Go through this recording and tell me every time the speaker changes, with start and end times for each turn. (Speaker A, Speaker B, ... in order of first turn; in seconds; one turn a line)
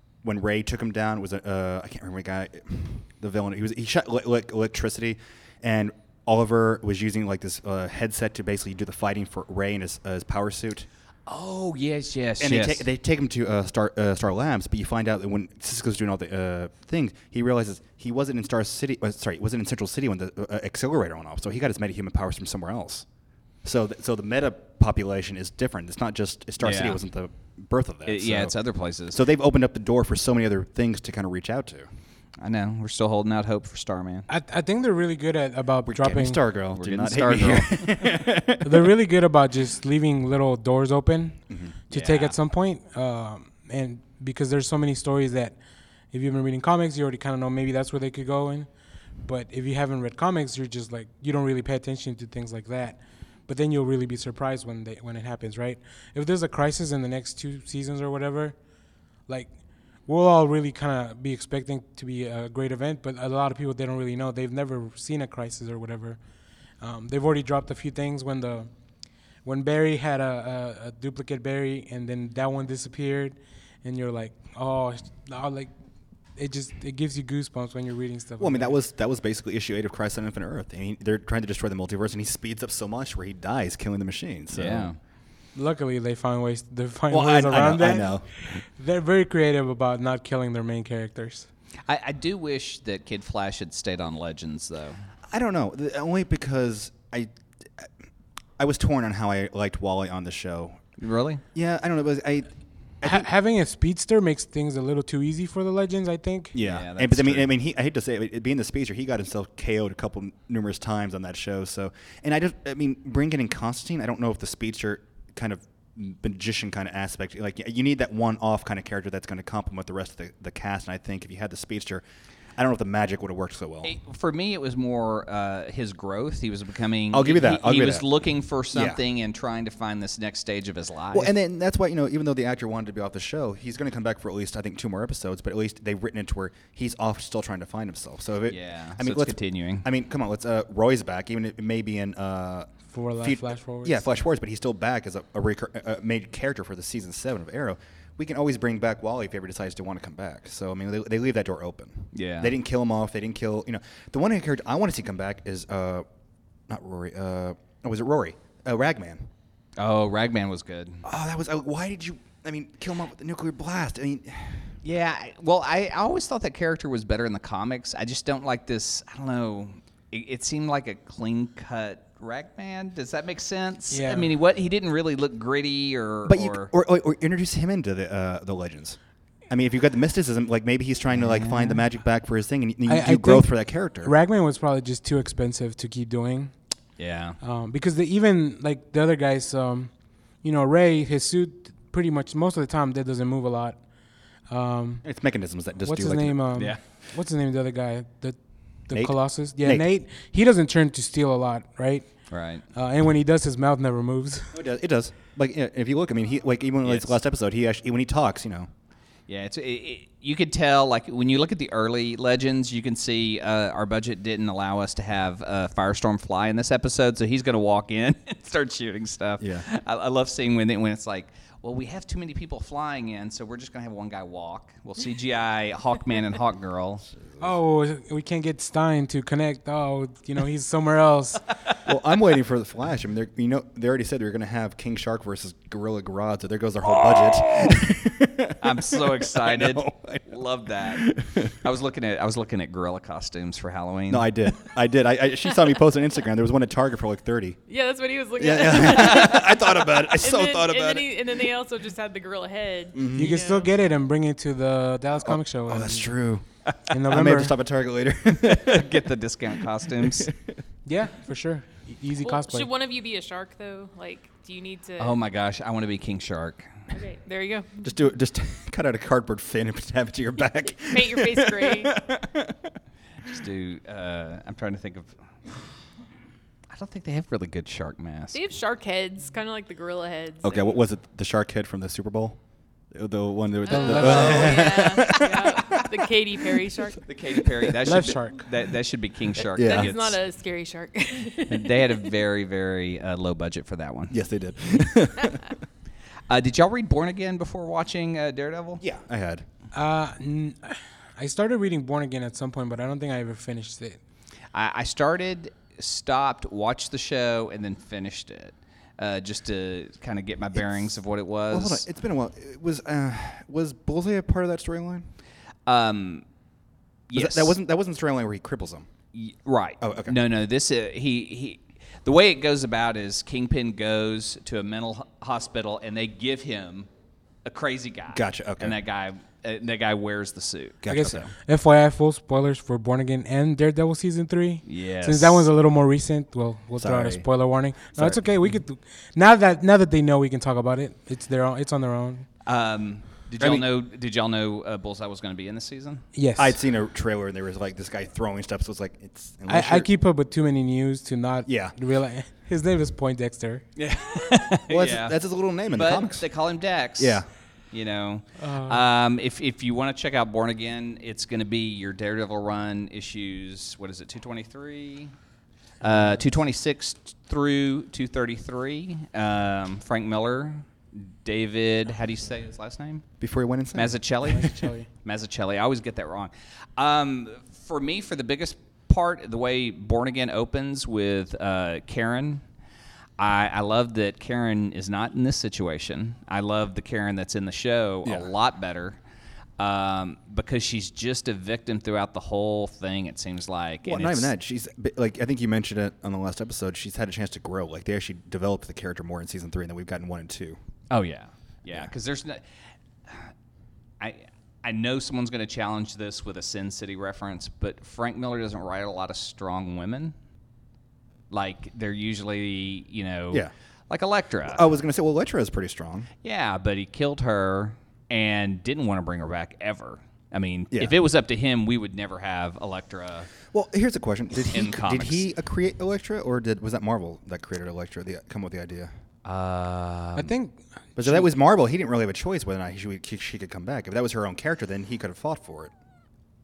Speaker A: 0.2-10.9
Speaker B: 11.3-12.8
Speaker A: 12.4-23.1
Speaker A: 23.6-28.5
Speaker B: 26.6-27.0
Speaker B: 28.1-29.2
Speaker A: 29.1-31.9
Speaker B: 32.4-34.3
Speaker C: 34.3-36.4
Speaker A: 35.9-38.6
Speaker B: 36.7-38.4
Speaker C: 38.6-45.5
Speaker A: 41.5-41.8
Speaker B: 41.9-42.3
Speaker C: 46.1-48.7
Speaker C: 49.2-58.5
Speaker C: 59.3-59.5
Speaker C: 60.0-66.2
Speaker C: 66.8-68.7
Speaker C: 69.4-75.7
Speaker C: 76.3-78.8
Speaker A: 78.4-84.9
Speaker B: 84.5-85.0
Speaker C: 85.5-91.5
Speaker A: 87.1-88.3
Speaker B: 91.8-95.0
Speaker A: 95.3-97.9
Speaker A: 98.6-100.8
Speaker B: 101.0-101.4
Speaker A: 101.5-102.5
Speaker A: 103.0-103.3
Speaker C: 103.0-106.5
Speaker A: 106.5-122.0
Speaker B: 106.6-107.5
Speaker A: 122.5-123.9
Speaker B: 123.8-131.3
Speaker A: 127.1-128.0
Speaker A: 128.7-129.0
Speaker A: 131.1-156.0
Speaker B: 138.5-139.8
Speaker C: 142.9-144.1
Speaker B: 152.1-152.5
Speaker A: 156.7-159.3
Speaker B: 159.8-161.0
Speaker A: 161.0-164.7
Speaker B: 164.8-176.7
Speaker C: 173.9-174.3
Speaker A: 176.2-179.0
Speaker A: 179.5-184.1
Speaker B: 181.1-181.8
Speaker C: 182.9-183.5
Speaker C: 184.0-186.5
Speaker B: 187.0-187.4
Speaker C: 187.4-193.8
Speaker C: 194.5-195.0
Speaker A: 195.0-196.5
Speaker C: 195.8-202.1
Speaker A: 198.9-199.8
Speaker B: 202.3-202.6
Speaker C: 202.7-204.5
Speaker A: 204.5-208.7
Speaker B: 206.8-207.1
Speaker B: 209.3-227.1
Speaker A: 219.4-219.6
Speaker C: 227.4-231.4
Speaker A: 231.8-241.6
Speaker B: 236.9-237.9
Speaker B: 238.6-244.3
Speaker A: 244.1-247.6
Speaker D: 247.7-253.7
Speaker A: 248.4-251.4
Speaker A: 252.9-253.4
Speaker C: 253.1-256.1
Speaker A: 255.2-256.4
Speaker C: 256.9-257.5
Speaker A: 257.1-259.1
Speaker B: 258.4-260.3
Speaker A: 259.9-260.6
Speaker C: 260.9-262.7
Speaker D: 262.2-265.2
Speaker B: 265.0-266.9
Speaker D: 266.9-267.8
Speaker A: 267.8-272.8
Speaker D: 270.9-271.9
Speaker B: 273.2-275.1
Speaker B: 276.7-278.4
Speaker D: 278.3-280.7
Speaker A: 280.4-282.4
Speaker A: 282.9-286.6
Speaker D: 283.6-287.1
Speaker C: 283.7-284.5
Speaker B: 283.9-285.5
Speaker B: 287.0-290.2
Speaker A: 287.4-287.7
Speaker C: 287.8-288.4
Speaker D: 289.4-291.9
Speaker A: 289.5-289.9
Speaker B: 291.5-294.1
Speaker A: 294.1-295.6
Speaker B: 296.3-298.8
Speaker A: 298.8-299.4
Speaker C: 299.7-304.0
Speaker B: 304.5-311.8
Speaker A: 311.5-315.1
Speaker B: 315.6-316.2
Speaker B: 317.1-317.6
Speaker A: 317.1-318.9
Speaker B: 319.1-326.9
Speaker A: 319.8-320.2
Speaker B: 327.4-331.3
Speaker A: 328.1-328.7
Speaker A: 330.8-331.2
Speaker C: 330.9-342.2
Speaker B: 334.6-335.5
Speaker A: 336.8-337.3
Speaker A: 337.9-338.2
Speaker B: 342.4-346.0
Speaker A: 343.4-343.7
Speaker C: 346.1-346.5
Speaker A: 346.4-349.9
Speaker C: 349.5-353.6
Speaker A: 351.4-351.7
Speaker B: 353.8-355.1
Speaker A: 354.7-356.3
Speaker B: 355.7-365.1
Speaker A: 357.0-357.3
Speaker C: 358.4-358.8
Speaker B: 365.8-373.0
Speaker A: 373.2-374.0
Speaker B: 373.7-382.4
Speaker C: 374.3-374.9
Speaker B: 383.2-389.0
Speaker B: 389.6-394.3
Speaker A: 393.8-400.6
Speaker B: 400.9-402.4
Speaker B: 403.1-403.3
Speaker B: 404.0-410.1
Speaker B: 411.3-414.7
Speaker A: 414.5-416.1
Speaker B: 416.2-423.3
Speaker A: 423.5-428.9
Speaker B: 424.5-425.2
Speaker B: 429.2-430.3
Speaker C: 430.1-431.3
Speaker A: 431.0-435.7